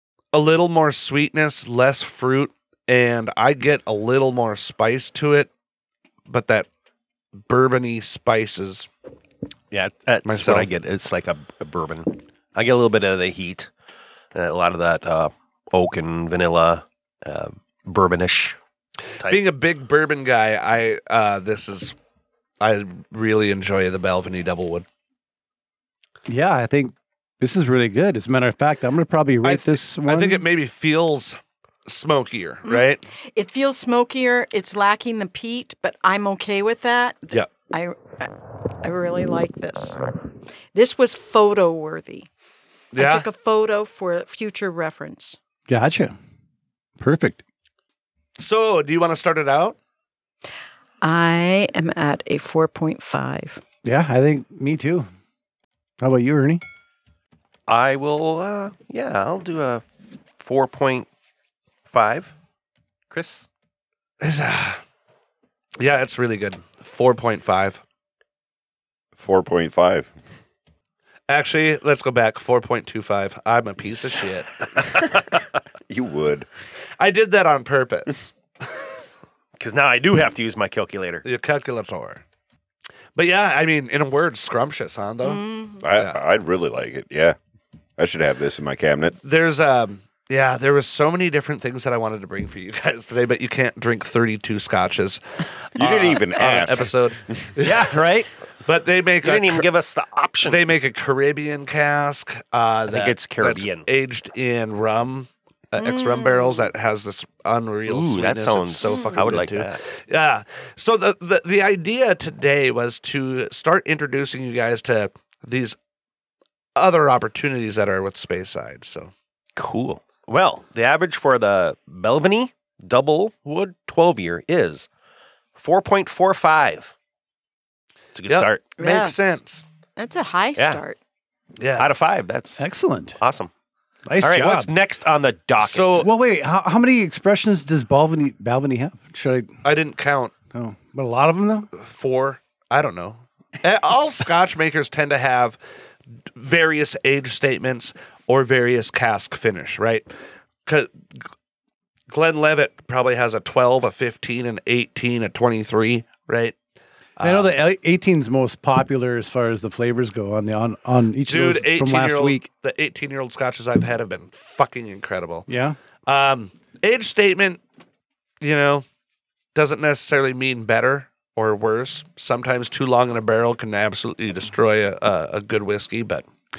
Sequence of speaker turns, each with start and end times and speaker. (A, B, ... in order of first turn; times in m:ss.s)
0:00.3-0:05.5 A
0:06.3-0:06.7 A
0:07.4-0:08.9 A
0:09.7-0:13.7 B
0:10.2-0:10.7 A
0:14.3-0:18.6 B
0:19.2-0:19.4 B
0:19.2-0:22.0 A
0:22.6-0:24.8 A
0:26.3-0:30.4 C
0:29.4-0:33.0 A
0:32.6-0:40.1 D
0:40.7-0:42.3 D
0:42.9-0:43.3 A
0:43.0-0:45.4 D
0:45.7-0:46.1 C
0:47.0-0:47.4 C
0:48.4-0:49.8 A
0:51.0-0:53.6 D
0:53.8-0:55.1 C
0:56.0-0:56.6 C
0:57.7-0:59.8 B
1:00.4-1:01.1 B
1:01.9-1:02.3 B
1:03.1-1:03.4 B
1:04.2-1:04.8 A
1:05.8-1:07.8 A
1:09.2-1:10.1 E
1:11.3-1:15.0 A
1:15.9-1:16.5 E
1:17.0-1:18.3 A
1:19.6-1:21.2 B
1:21.2-1:22.2 A
1:23.1-1:26.2 A
1:25.2-1:25.8 D
1:25.8-1:27.4 E
1:28.0-1:29.1 E
1:29.2-1:37.9 A
1:35.8-1:37.5 E
1:37.6-1:38.3 B
1:38.6-1:39.7 A
1:39.2-1:40.6 B
1:40.4-1:55.8 A
1:42.9-1:43.9 B
1:45.8-1:46.7 D
1:47.9-1:49.8 B
1:48.8-1:49.3 D
1:56.8-1:59.1 A
1:59.6-2:04.9 B
2:05.5-2:06.9 B
2:08.1-2:08.6 B
2:08.3-2:09.6 A
2:08.8-2:09.2 D
2:10.0-2:11.0 D
2:11.6-2:11.9 A
2:11.8-2:12.6 B
2:12.6-2:13.2 C
2:13.2-2:13.5 B
2:14.0-2:14.7 C
2:14.2-2:16.1 B
2:15.6-2:16.1 A
2:16.0-2:19.5 C
2:19.6-2:20.3 A
2:20.5-2:21.7 C
2:21.8-2:25.6 A
2:26.3-2:30.1 A
2:30.6-2:30.9 A
2:32.1-2:36.6 A
2:37.2-2:37.5 A
2:37.2-2:42.5 C
2:41.3-2:45.5 A
2:45.5-2:45.8 C
2:46.0-2:47.6 A
2:48.4-2:48.8 A
2:49.5-2:56.2 A